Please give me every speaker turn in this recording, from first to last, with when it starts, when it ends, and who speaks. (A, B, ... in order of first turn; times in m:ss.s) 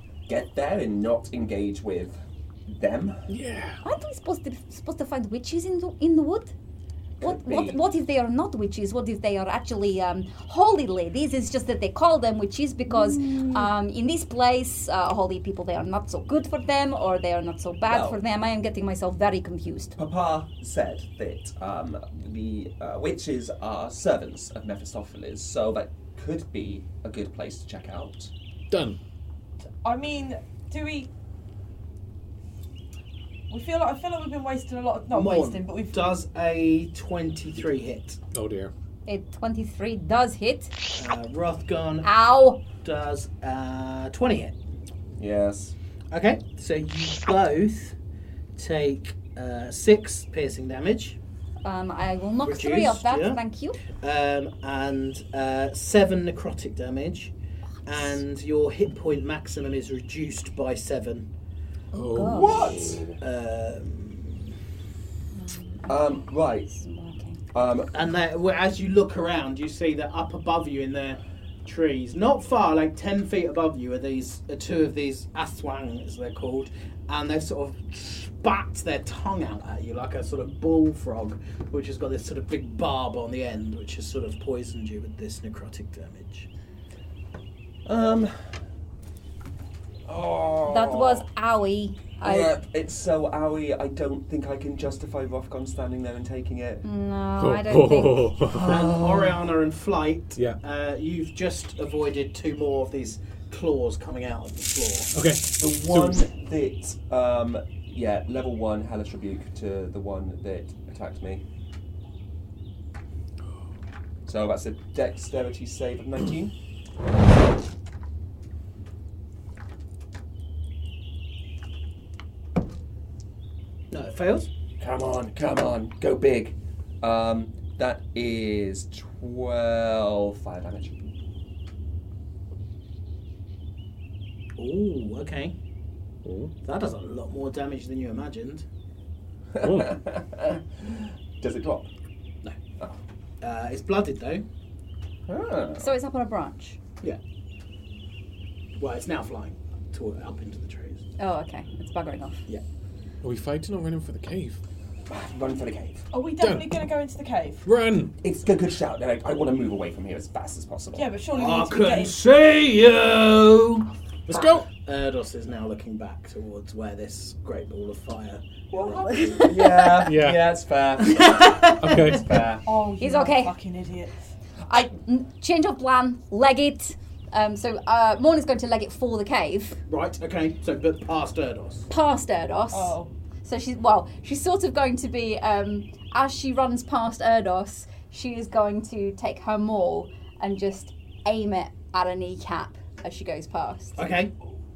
0:00.3-0:03.3 A
0:03.3-0:03.8 B
0:03.8-0:06.5 C
0:07.2-0:07.8 A
0:07.2-0:20.0 C
0:17.8-0:18.2 A
0:20.0-0:28.3 A
0:28.7-0:29.0 B
0:29.8-0:31.1 D
0:33.5-0:36.1 D
0:35.1-0:38.2 E
0:38.3-0:38.7 B
0:39.1-0:40.8 C
0:41.0-0:42.1 E
0:42.0-0:42.6 C
0:42.7-0:44.6 E
0:45.2-0:45.8 A
0:46.1-0:48.0 E
0:48.6-0:51.2 E
0:51.6-0:53.8 C
0:52.4-0:53.4 E
0:54.0-0:57.3 E
0:57.8-1:01.3 E
1:01.9-1:03.2 B
1:02.0-1:02.7 C
1:02.2-1:03.1 A
1:03.2-1:04.5 E
1:05.3-1:07.4 C
1:05.9-1:06.7 A
1:07.5-1:07.9 A
1:07.9-1:26.5 E
1:27.8-1:28.4 A
1:30.1-1:31.2 A
1:30.7-1:32.5 C
1:32.2-1:36.8 A
1:36.8-1:38.4 C
1:37.4-1:38.8 B
1:38.5-1:39.3 A
1:38.6-1:45.1 E
1:45.1-1:46.2 B
1:45.6-1:51.4 A
1:54.3-1:56.5 A
2:03.9-2:04.5 E
2:04.8-2:11.0 A
2:14.6-2:15.6 E
2:16.2-2:16.5 B
2:16.6-2:18.7 E
2:19.6-2:21.9 A
2:19.6-2:20.0 B
2:23.4-2:24.4 E
2:25.3-2:25.9 A
2:25.8-2:26.8 C
2:28.8-2:31.0 E
2:31.2-2:32.4 C
2:33.2-2:34.6 B
2:35.1-2:36.1 A
2:36.1-2:37.7 D
2:36.4-2:36.8 B
2:37.6-2:38.1 B
2:38.2-2:41.1 A
2:41.0-2:42.2 D
2:41.3-2:49.6 E
2:44.3-2:44.6 B
2:49.0-2:50.0 C
2:49.4-2:52.6 A
2:50.0-2:50.5 B
2:51.0-2:52.2 E
2:51.8-2:52.3 B
2:52.7-2:54.2 D
2:53.0-2:53.5 C
2:54.7-2:59.8 C
2:59.9-3:01.9 E
3:01.9-3:14.0 C
3:02.7-3:03.1 D
3:14.0-3:14.3 E